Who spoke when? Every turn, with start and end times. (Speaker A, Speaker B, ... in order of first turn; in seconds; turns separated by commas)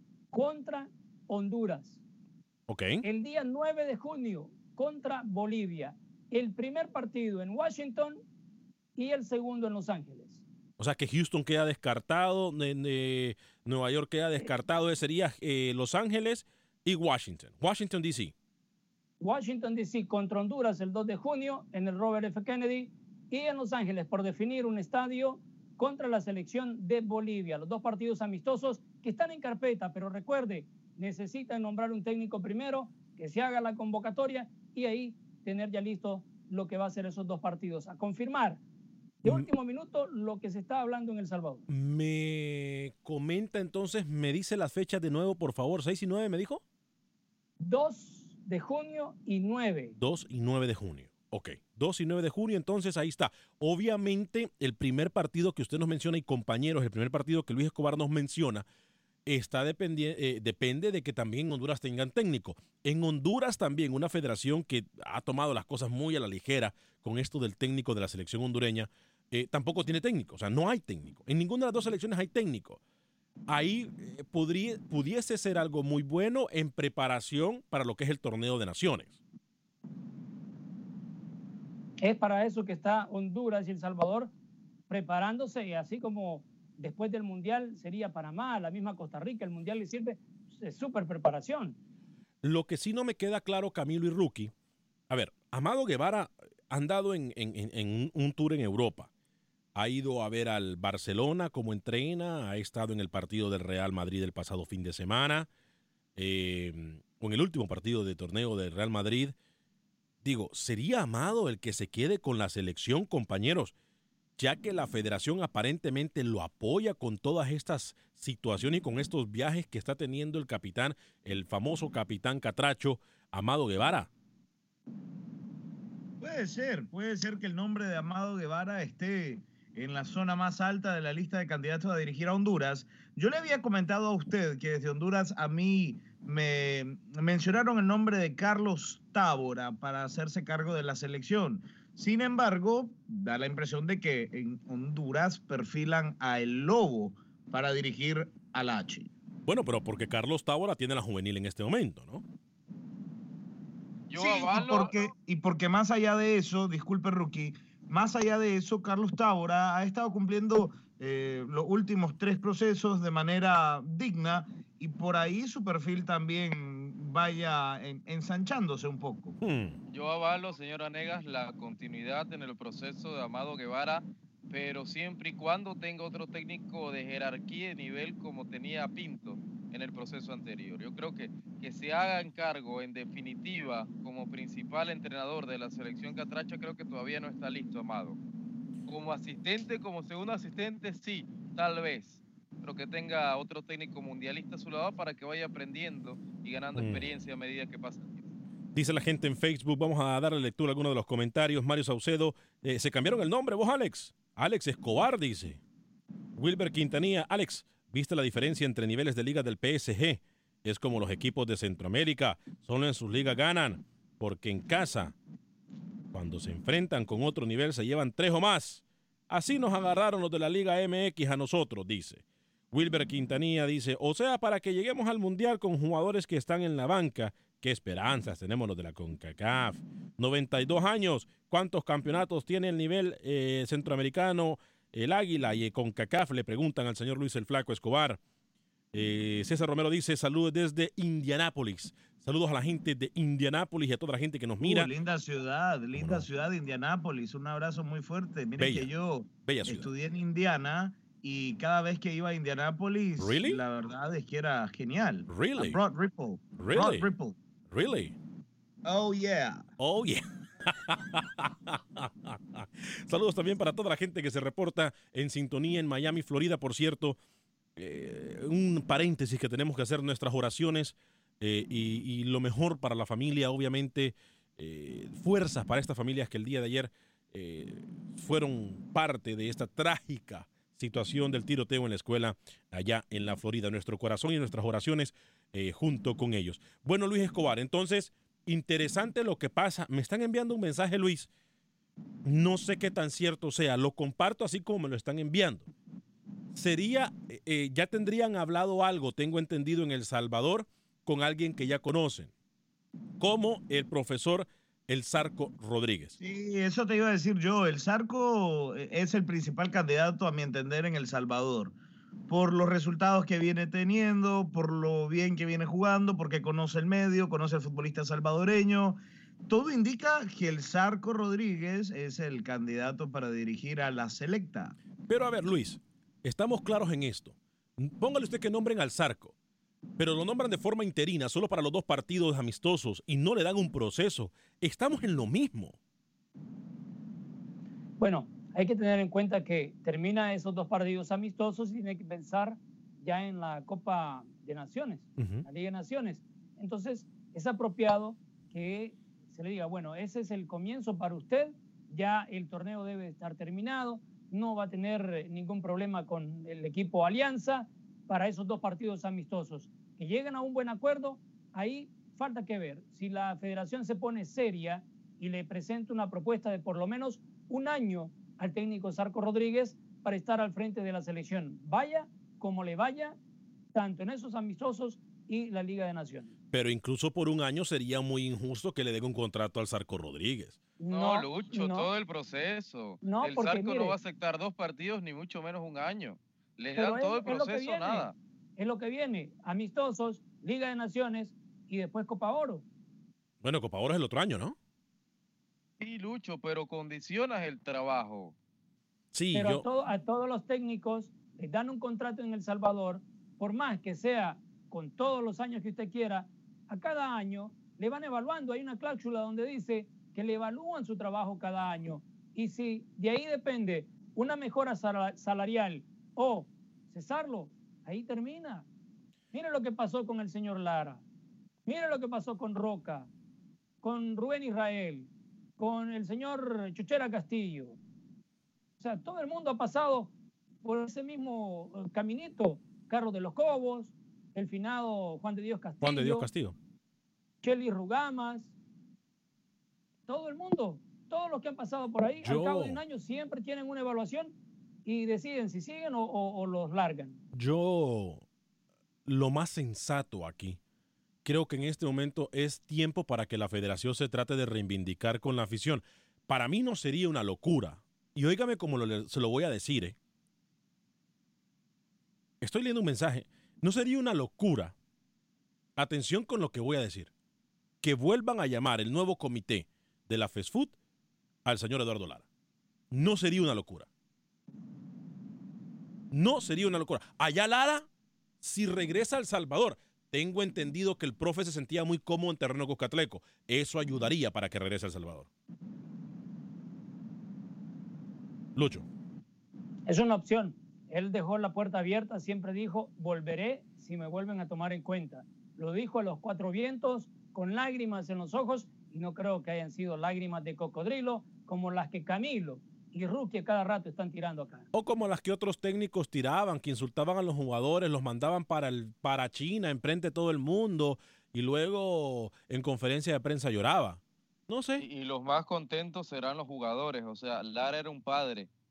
Speaker A: 0.3-2.0, Speaker B: 2.7-3.0, Speaker A: 3.0-8.2, Speaker A: 9.0-10.4, Speaker B: 10.8-18.3, Speaker A: 19.2-38.6, Speaker A: 39.2-41.6, Speaker B: 41.7-46.6, Speaker A: 47.6-50.0, Speaker B: 50.0-58.6, Speaker B: 59.3-72.8, Speaker B: 73.5-79.2, Speaker A: 82.0-84.3, Speaker A: 84.9-91.8, Speaker B: 92.4-94.5, Speaker B: 95.1-99.1, Speaker B: 99.8-105.5, Speaker B: 106.2-109.3, Speaker B: 110.2-113.7, Speaker B: 114.4-124.1, Speaker C: 126.2-149.1, Speaker B: 149.5-152.2, Speaker D: 154.1-155.1, Speaker C: 154.2-169.4, Speaker B: 169.4-169.8, Speaker D: 169.9-188.2, Speaker D: 188.9-198.2, Speaker B: 196.8-197.1, Speaker B: 198.8-205.6, Speaker B: 206.4-215.2, Speaker B: 216.1-238.2, Speaker B: 238.9-244.9, Speaker C: 244.6-257.4, Speaker B: 245.9-246.3, Speaker B: 248.6-248.9, Speaker B: 249.4-249.9, Speaker B: 253.2-253.6, Speaker B: 255.3-255.8, Speaker B: 256.6-257.1, Speaker B: 257.7-258.1, Speaker C: 258.9-259.6, Speaker B: 259.8-267.2, Speaker B: 267.8-291.3, Speaker B: 292.2-295.7, Speaker B: 296.5-302.3, Speaker B: 303.2-306.2, Speaker C: 306.2-311.8, Speaker C: 312.3-324.8, Speaker B: 325.1-329.3, Speaker B: 330.0-335.8, Speaker A: 338.0-373.2, Speaker B: 345.2-345.4, Speaker A: 373.7-376.3, Speaker B: 376.5-380.6, Speaker A: 380.8-381.9, Speaker D: 380.9-388.1, Speaker A: 383.0-384.0, Speaker A: 386.8-392.6, Speaker B: 393.4-394.6, Speaker D: 395.8-398.4, Speaker B: 399.1-399.6, Speaker A: 399.3-418.7, Speaker A: 419.3-421.0, Speaker A: 421.7-423.1, Speaker A: 423.8-427.8, Speaker A: 428.8-430.1, Speaker A: 430.6-436.3, Speaker B: 435.8-436.6, Speaker A: 437.4-438.5, Speaker A: 440.1-444.3, Speaker B: 442.2-442.8, Speaker A: 444.9-447.2, Speaker B: 447.3-448.2, Speaker B: 449.1-450.6, Speaker B: 451.2-460.0, Speaker B: 462.4-464.8, Speaker B: 465.8-467.1, Speaker B: 467.8-470.8, Speaker B: 471.4-472.3, Speaker B: 472.9-473.9, Speaker B: 476.1-477.9, Speaker B: 478.4-485.3, Speaker B: 488.6-488.9, Speaker A: 489.9-504.7, Speaker B: 504.7-514.9, Speaker D: 514.8-518.5